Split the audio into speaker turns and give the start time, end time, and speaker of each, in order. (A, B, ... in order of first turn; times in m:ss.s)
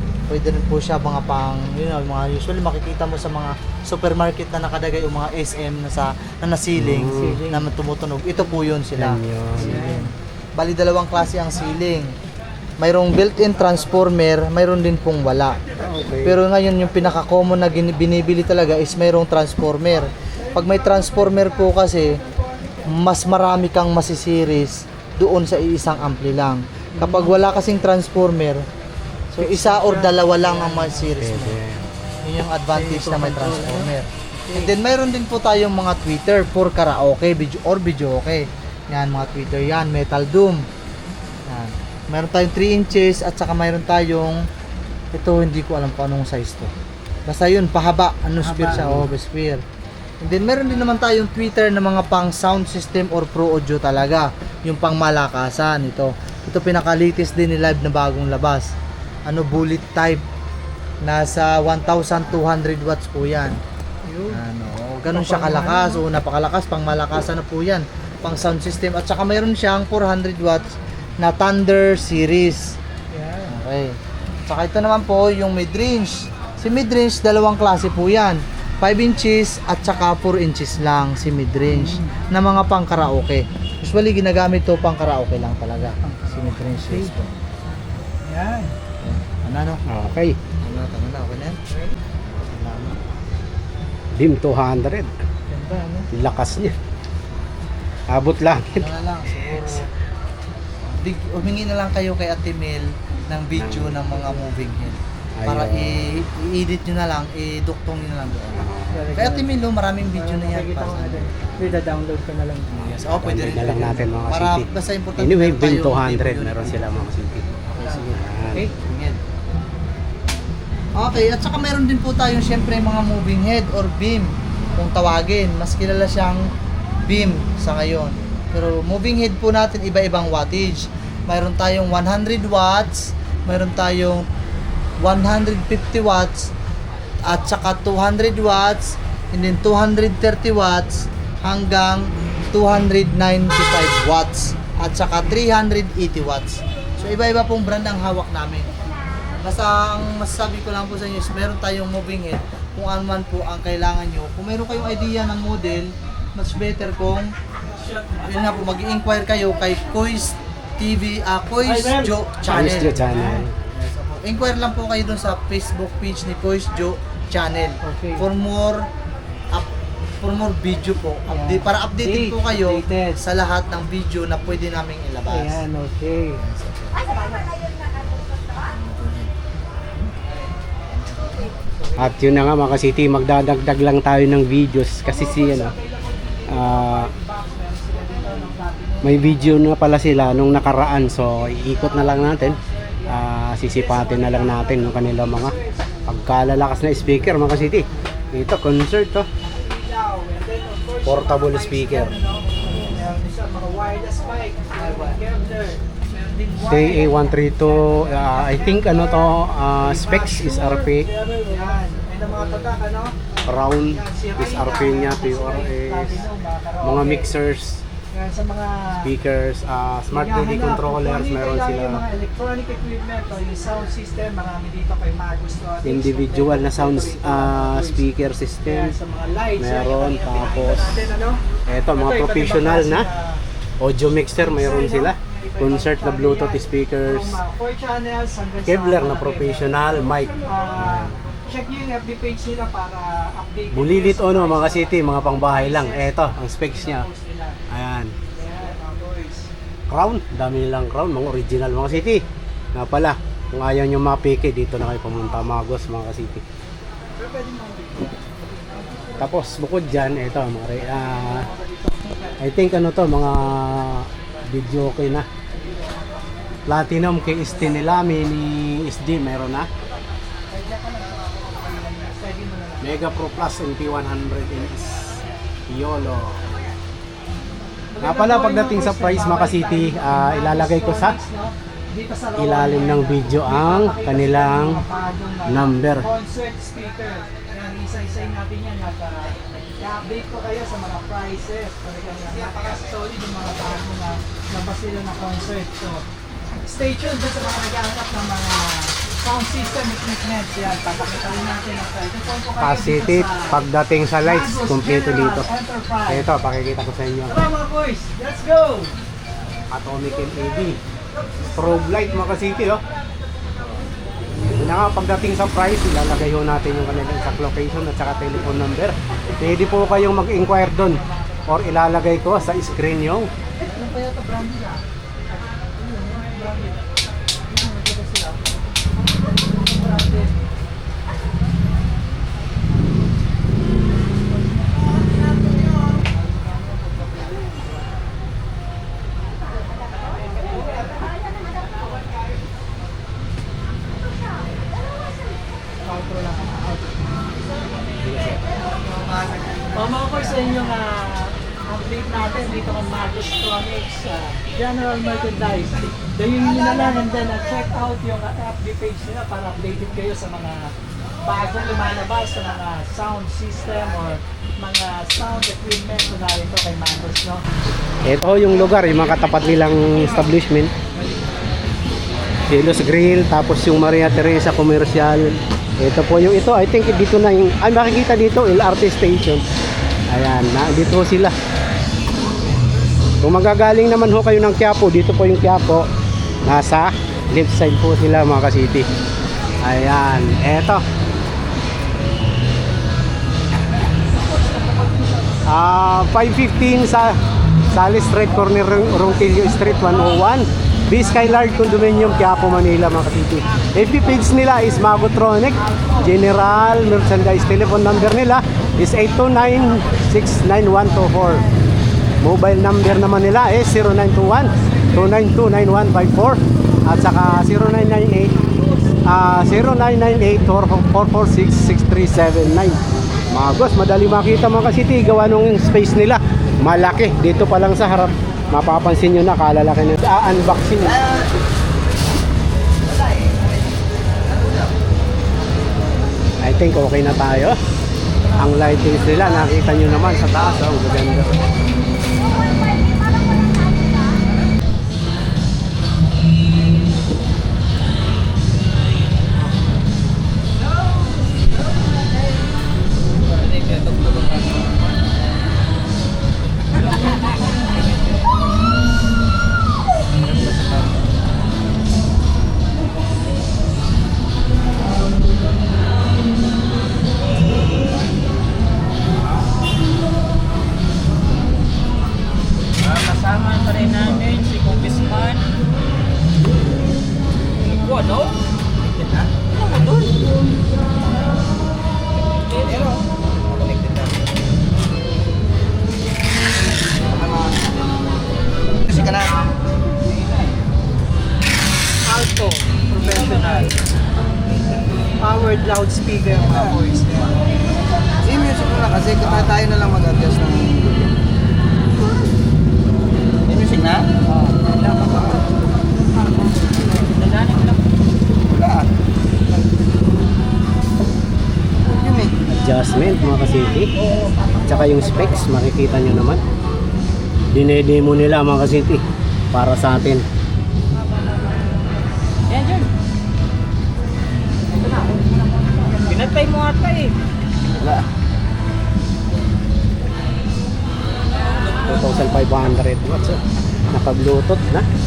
0:00.3-0:09.2 A
0:06.8-0:07.5 B
0:07.0-0:07.6 C
0:09.0-0:10.1 B
0:09.6-0:10.1 C
0:10.6-0:12.1 A
0:12.8-0:15.6 A
0:15.8-0:16.4 B
0:16.2-0:22.2 A
0:22.9-0:28.6 A
0:27.0-0:27.3 C
0:29.3-0:31.6 A
0:29.4-0:31.1 C
0:31.2-0:31.8 B
0:32.2-0:40.7 A
0:32.7-0:34.7 C
0:41.5-0:44.5 A
0:45.1-0:46.7 A
0:47.3-0:49.6 A
0:48.4-0:48.9 C
0:50.2-0:58.7 A
0:59.3-1:00.2 A
1:01.0-1:03.6 A
1:04.0-1:04.4 C
1:04.3-1:12.8 A
1:05.1-1:06.0 C
1:13.1-1:13.5 C
1:13.5-1:27.3 A
1:21.7-1:22.2 C
1:26.0-1:27.1 C
1:28.2-1:28.7 C
1:29.0-1:29.8 A
1:29.9-1:30.4 B
1:30.6-1:31.6 A
1:32.5-1:33.0 A
1:34.2-1:35.1 B
1:35.5-1:36.1 C
1:36.1-1:36.8 B
1:38.1-1:38.9 B
1:38.8-1:39.9 A
1:39.4-1:39.8 B
1:40.9-1:51.3 A
1:43.6-1:44.0 B
1:45.4-1:46.2 B
1:48.6-1:49.1 B
1:48.9-1:49.5 C
1:50.1-1:52.9 C
1:52.8-1:58.2 A
1:52.8-1:58.6 B
1:58.7-1:59.2 A
2:01.0-2:06.5 A
2:07.0-2:14.3 A
2:15.0-2:16.5 A
2:17.3-2:28.7 A
2:29.4-2:37.3 A
2:38.2-2:43.0 A
2:41.6-2:42.1 C
2:42.5-2:43.6 B
2:42.8-2:43.5 C
2:43.7-2:48.9 A
2:47.8-2:48.2 C
2:50.2-2:55.6 A
2:51.3-2:53.2 C
2:55.3-2:56.4 C
2:56.4-2:57.4 A
2:58.7-2:59.3 A
3:01.1-3:01.5 A
3:02.0-3:05.7 B
3:05.0-3:09.6 C
3:06.5-3:07.1 B
3:09.0-3:19.3 B
3:11.6-3:16.0 C
3:19.4-3:33.2 C
3:21.0-3:23.1 B
3:24.8-3:25.1 A
3:26.6-3:31.1 B
3:33.5-3:36.2 B
3:33.8-3:37.3 C
3:36.8-3:37.8 B
3:38.1-3:39.1 C
3:39.0-3:42.0 B
3:40.1-3:48.1 C
3:45.8-3:49.0 B
3:48.6-3:51.4 C
3:49.6-3:51.0 B
3:51.7-3:53.1 B
3:51.9-3:53.4 C
3:53.8-3:57.4 B
3:54.3-4:07.6 C
3:58.7-4:01.2 B
4:03.7-4:07.1 B
4:07.7-4:08.2 B
4:08.3-4:09.5 C
4:09.9-4:16.4 B
4:17.2-4:19.2 C
4:19.2-4:21.5 B
4:20.9-4:22.4 C
4:22.4-4:25.3 B
4:26.7-4:29.7 B
4:30.5-4:33.0 C
4:32.8-4:36.4 B
4:37.9-4:56.0 C
4:38.0-4:41.2 B
4:42.4-4:44.8 B
4:45.5-4:46.1 B
4:56.6-5:03.6 C
5:02.6-5:05.5 B
5:04.2-5:06.3 C
5:06.1-5:07.4 B
5:07.3-5:09.0 C
5:09.7-5:10.8 B
5:11.5-5:12.8 B
5:14.5-5:23.3 B
5:23.6-5:24.8 C
5:25.6-5:26.8 C
5:27.5-5:28.5 C
5:29.6-5:30.3 C
5:45.8-5:47.0 C
5:48.0-5:48.5 B
5:49.7-6:00.7 C
6:01.2-6:07.4 C
6:08.0-6:10.7 B
6:09.0-6:10.0 C
6:12.5-6:19.4 B
6:20.1-6:21.4 B
6:23.2-6:25.9 B
6:26.4-6:28.9 B
6:29.6-6:30.8 B
6:35.5-6:37.2 B
6:37.7-6:51.5 B
6:45.6-6:47.9 C
6:49.7-6:50.0 C
6:52.2-6:58.4 B
6:59.0-7:02.8 B
7:03.3-7:11.0 B
7:16.4-7:17.6 B
7:18.3-7:21.4 B
7:33.3-7:34.8 D
7:52.8-7:55.5 D
7:57.6-7:58.4 D
7:59.6-8:00.2 D
8:02.3-8:03.0 D
8:07.2-8:07.5 E
8:08.9-8:09.3 E
8:12.1-8:13.7 C
8:13.0-8:13.7 D
8:15.2-8:17.3 C
8:16.4-8:16.8 E
8:18.2-8:21.1 E
8:23.5-8:25.4 E
8:27.2-8:27.8 D
8:28.5-8:28.8 E
8:31.9-8:32.3 E
8:32.5-8:33.9 B
8:34.1-8:34.8 D
8:34.7-8:36.4 B
8:37.5-8:40.2 B
8:42.5-8:42.9 D
8:46.0-8:47.1 D
8:51.6-8:51.9 D
8:51.9-8:53.4 B
8:53.9-8:54.9 B